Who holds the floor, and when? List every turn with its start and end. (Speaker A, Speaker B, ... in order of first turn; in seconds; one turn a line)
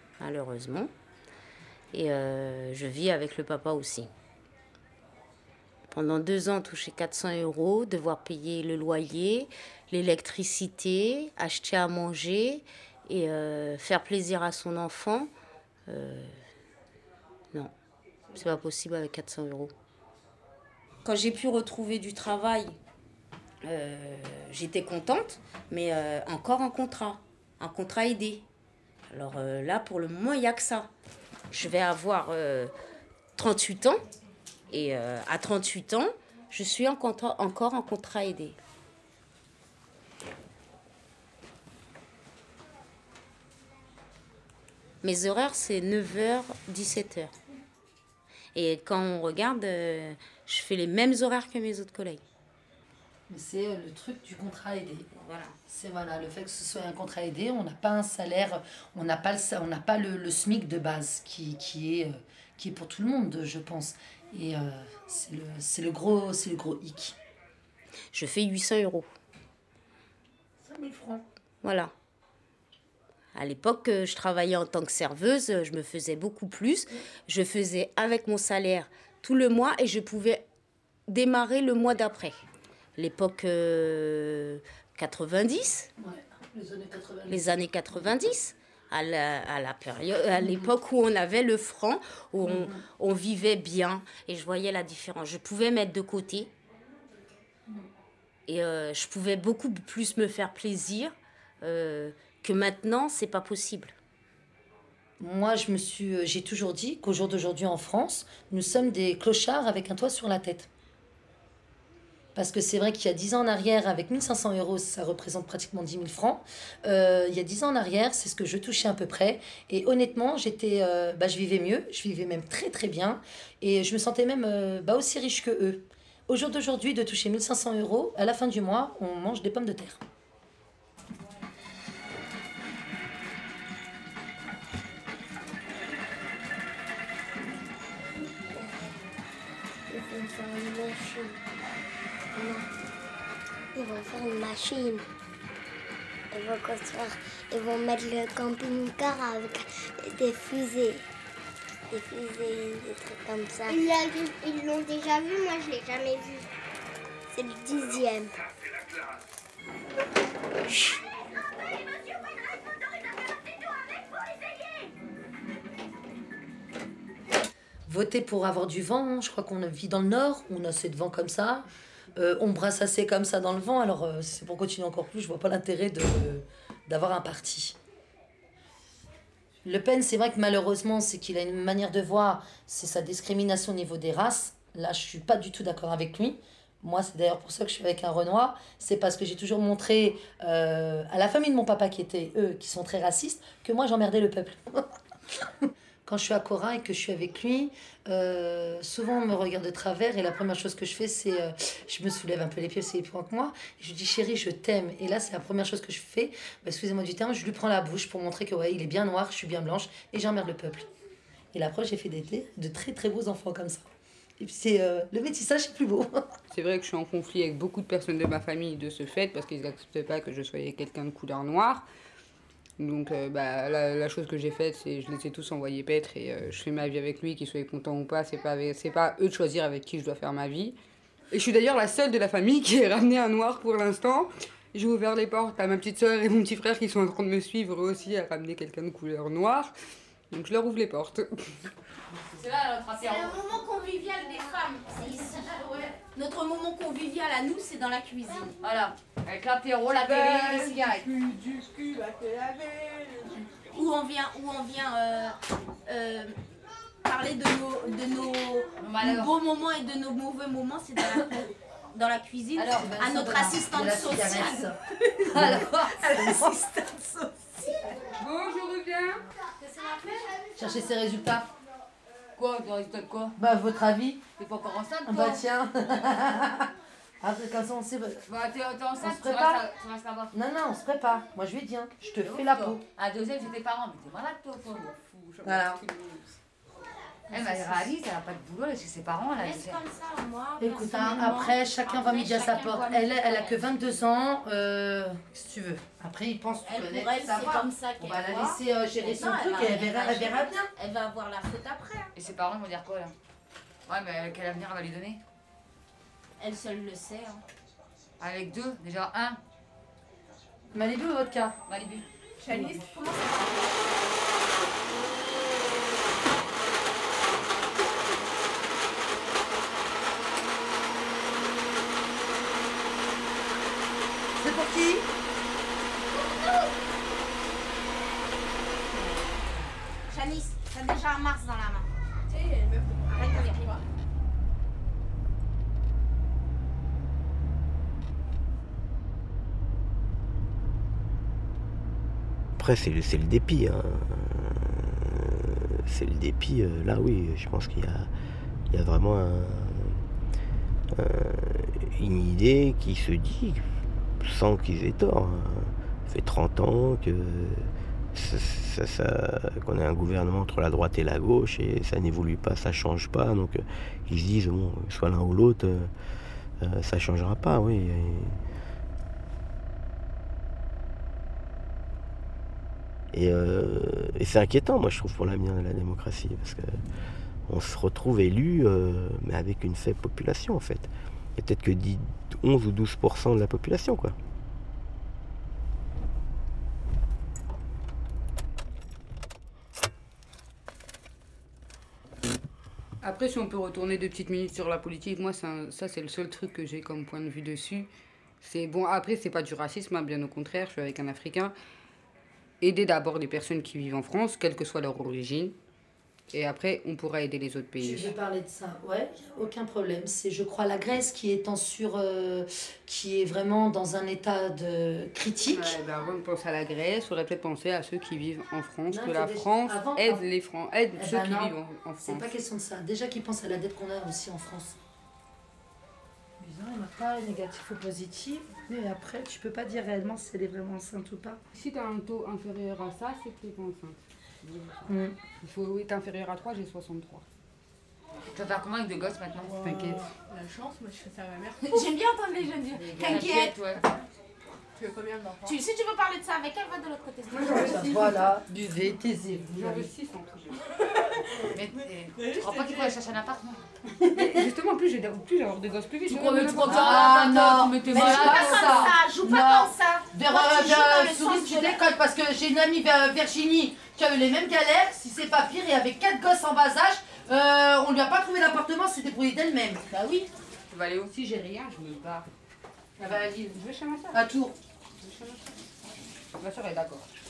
Speaker A: 0.2-0.9
Speaker A: 1.9-4.1
Speaker A: 5.9-15.3
Speaker A: 15.9-16.3
Speaker A: 18.3-19.7
Speaker A: 21.0-22.8
Speaker A: 23.6-28.4
Speaker A: 29.1-30.9
Speaker A: 31.5-32.7
Speaker A: 33.4-34.0
Speaker A: 34.7-38.6
Speaker A: 45.0-47.3
Speaker A: 48.5-52.2
Speaker B: 53.3-55.1
Speaker A: 55.1-55.5
Speaker B: 55.7-67.2
Speaker A: 68.1-69.1
Speaker B: 70.6-71.2
Speaker A: 71.6-71.9
Speaker A: 73.3-80.4
Speaker A: 81.1-82.4
Speaker A: 83.0-85.9
Speaker B: 86.0-87.7
Speaker A: 87.3-96.5
Speaker B: 92.4-92.8
Speaker A: 98.5-103.9
Speaker B: 105.2-110.7
Speaker B: 112.3-130.0
Speaker C: 139.9-141.4
Speaker C: 142.3-142.7
Speaker C: 143.7-145.0
Speaker C: 146.3-151.0
Speaker C: 151.9-156.4
Speaker C: 157.3-158.4
Speaker C: 160.7-161.0
Speaker B: 167.9-177.8
Speaker B: 179.6-194.9
Speaker B: 196.1-210.9
Speaker B: 211.5-213.8
Speaker B: 214.4-216.1
Speaker D: 216.5-221.8
Speaker D: 222.8-230.8
Speaker D: 231.3-239.7
Speaker D: 240.3-241.7
Speaker E: 242.3-243.4
Speaker A: 243.0-248.6
Speaker E: 248.6-251.1
Speaker A: 250.5-250.9
Speaker F: 251.5-253.2
Speaker A: 253.7-256.4
Speaker A: 257.0-264.7
Speaker E: 258.8-259.3
Speaker E: 262.6-262.9
Speaker B: 262.7-264.8
Speaker B: 265.3-267.9
Speaker A: 265.7-266.8
Speaker D: 268.1-269.2
Speaker A: 269.6-270.3
Speaker B: 270.5-271.5
Speaker E: 272.4-273.3
Speaker B: 273.4-274.3
Speaker E: 274.4-275.4
Speaker B: 275.0-278.2
Speaker E: 278.3-280.3
Speaker B: 279.0-279.7
Speaker B: 280.3-282.8
Speaker E: 282.2-285.0
Speaker F: 285.1-286.2
Speaker B: 285.4-285.8
Speaker E: 287.3-289.8
Speaker A: 289.3-294.0
Speaker B: 290.6-300.7
Speaker A: 296.6-302.1
Speaker E: 302.1-303.1
Speaker E: 303.9-305.2
Speaker A: 306.4-307.4
Speaker E: 308.2-309.4
Speaker B: 310.7-311.6
Speaker E: 311.7-312.1
Speaker F: 312.4-313.8
Speaker B: 324.4-325.1
Speaker A: 330.1-331.9
Speaker F: 332.3-333.8
Speaker A: 333.1-333.6
Speaker G: 342.6-348.1
Speaker G: 348.7-350.0
Speaker G: 350.9-353.6
Speaker G: 354.2-365.9
Speaker G: 366.6-368.4
Speaker G: 373.1-376.7
Speaker G: 377.5-384.1
Speaker D: 393.0-397.9
Speaker D: 398.4-401.5
Speaker D: 402.6-405.5
Speaker D: 406.3-408.1
Speaker B: 407.8-415.8
Speaker D: 415.5-422.3
Speaker B: 418.9-420.2
Speaker B: 420.9-424.8
Speaker B: 426.4-431.4
Speaker D: 431.5-434.9
Speaker B: 434.9-435.1
Speaker D: 435.4-437.2
Speaker E: 438.3-439.6
Speaker F: 439.6-441.9
Speaker D: 439.6-440.1
Speaker A: 441.6-443.6
Speaker B: 442.8-443.2
Speaker E: 443.0-443.8
Speaker F: 444.8-445.6
Speaker A: 445.4-447.8
Speaker D: 447.3-448.2
Speaker B: 447.5-449.9
Speaker D: 449.5-450.6
Speaker E: 451.5-453.6
Speaker B: 454.0-454.4
Speaker D: 454.0-456.9
Speaker E: 456.1-458.5
Speaker B: 456.6-469.8
Speaker A: 458.1-461.8
Speaker A: 470.0-470.3
Speaker D: 470.7-472.2
Speaker B: 473.0-473.6
Speaker D: 473.0-474.2
Speaker B: 474.1-474.6
Speaker D: 475.0-475.6
Speaker D: 476.4-477.1